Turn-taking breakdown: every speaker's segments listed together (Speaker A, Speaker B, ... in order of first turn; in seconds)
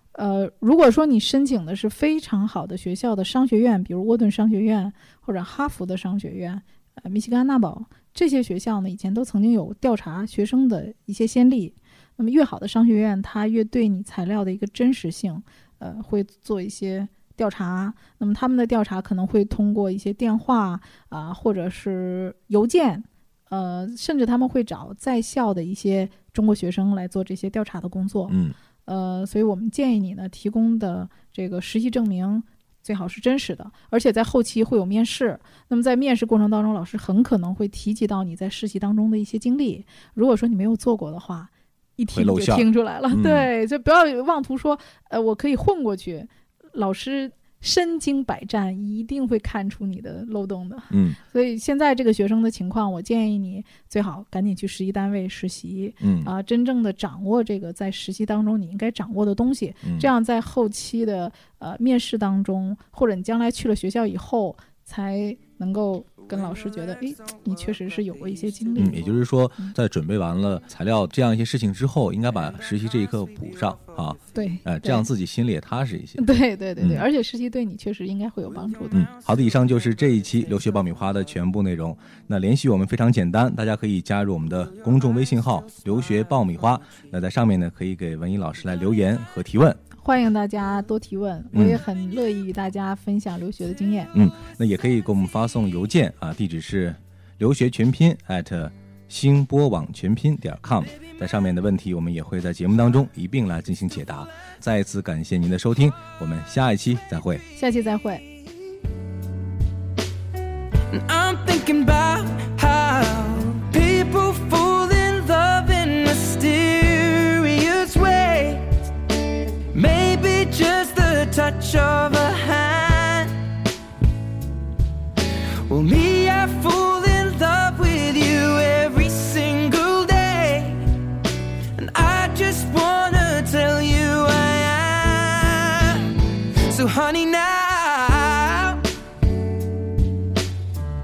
Speaker A: 0.1-69.0, 74.3-75.1, 76.2-79.1, 90.0-94.1, 107.6-108.3
Speaker B: 28.3-28.6, 42.1-43.5, 50.9-51.2, 56.0-56.3, 59.8-60.1, 68.8-76.3, 76.8-77.0, 78.9-89.8, 91.5-91.8, 94.1-107.4
Speaker C: 110.9-118.8, 119.7-123.4, 125.7-130.9, 131.8-138.9